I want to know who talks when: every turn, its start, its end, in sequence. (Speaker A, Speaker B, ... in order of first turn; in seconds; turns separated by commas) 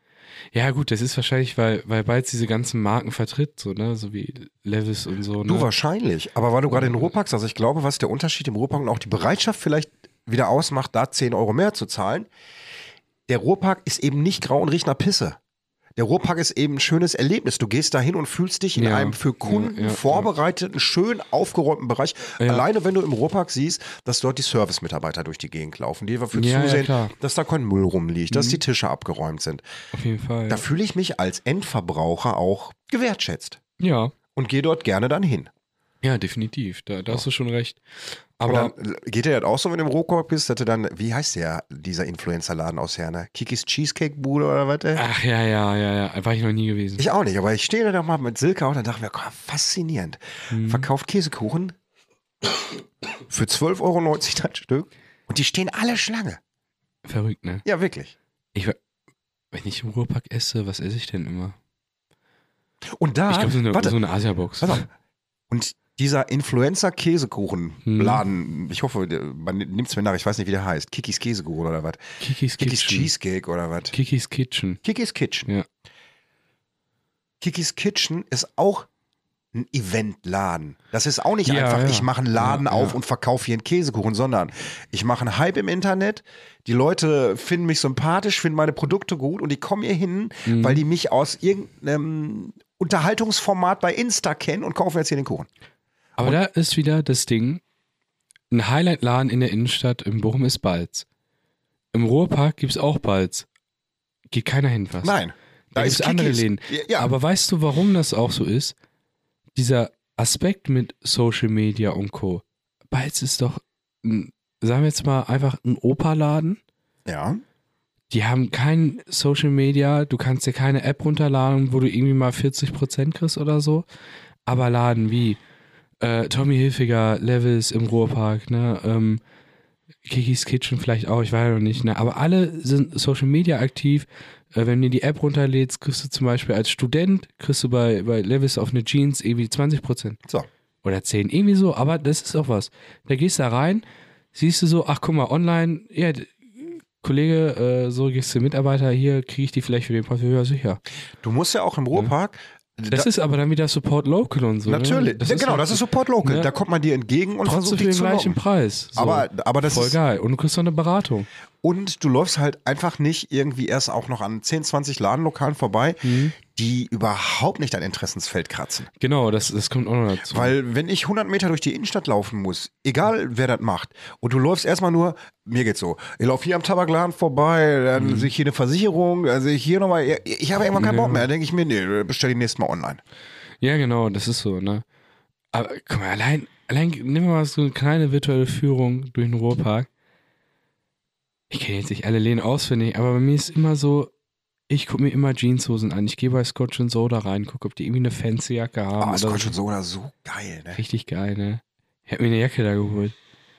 Speaker A: 0.5-5.7, Speaker B: 5.5-12.3, Speaker A: 6.7-7.1, Speaker B: 13.3-15.4, Speaker B: 16.0-29.6, Speaker A: 18.8-20.3, Speaker A: 26.3-27.1, Speaker A: 28.3-28.6, Speaker A: 29.9-30.6, Speaker B: 30.5-33.6, Speaker A: 33.8-34.1, Speaker B: 34.3-35.5, Speaker A: 36.0-37.8, Speaker A: 38.4-38.7, Speaker B: 38.5-45.0, Speaker A: 45.0-47.0, Speaker B: 47.0-51.8, Speaker A: 50.5-50.9, Speaker B: 53.3-56.4, Speaker A: 57.0-57.6, Speaker B: 57.6-58.1, Speaker A: 59.5-61.6, Speaker B: 62.9-64.0, Speaker A: 63.3-64.9, Speaker B: 64.6-64.9, Speaker B: 65.5-72.0, Speaker A: 67.8-68.2, Speaker A: 72.2-73.1, Speaker B: 72.6-74.0, Speaker A: 73.9-74.8, Speaker B: 74.8-75.5, Speaker B: 77.4-78.9, Speaker B: 79.5-95.5, Speaker A: 81.5-83.0, Speaker A: 90.5-90.8, Speaker A: 96.2-97.6, Speaker A: 98.5-101.1, Speaker A: 101.9-103.5, Speaker A: 104.3-105.2, Speaker B: 105.0-107.1, Speaker A: 105.7-108.8, Speaker A: 109.5-116.6, Speaker B: 117.1-117.4, Speaker A: 118.1-123.8, Speaker A: 124.5-125.4, Speaker A: 126.0-129.2, Speaker A: 130.1-140.2, Speaker A: 140.8-150.8, Speaker B: 151.2-153.1, Speaker A: 152.9-156.5, Speaker B: 154.7-158.4, Speaker A: 157.4-161.3, Speaker B: 158.9-160.0, Speaker B: 161.6-168.9, Speaker A: 166.0-166.3, Speaker A: 169.0-170.6, Speaker B: 170.3-183.0, Speaker A: 178.0-178.3, Speaker A: 180.8-181.3, Speaker A: 183.6-184.8, Speaker A: 185.5-189.9, Speaker A: 191.5-194.1, Speaker A: 194.7-199.6, Speaker B: 199.0-200.8, Speaker A: 200.8-203.2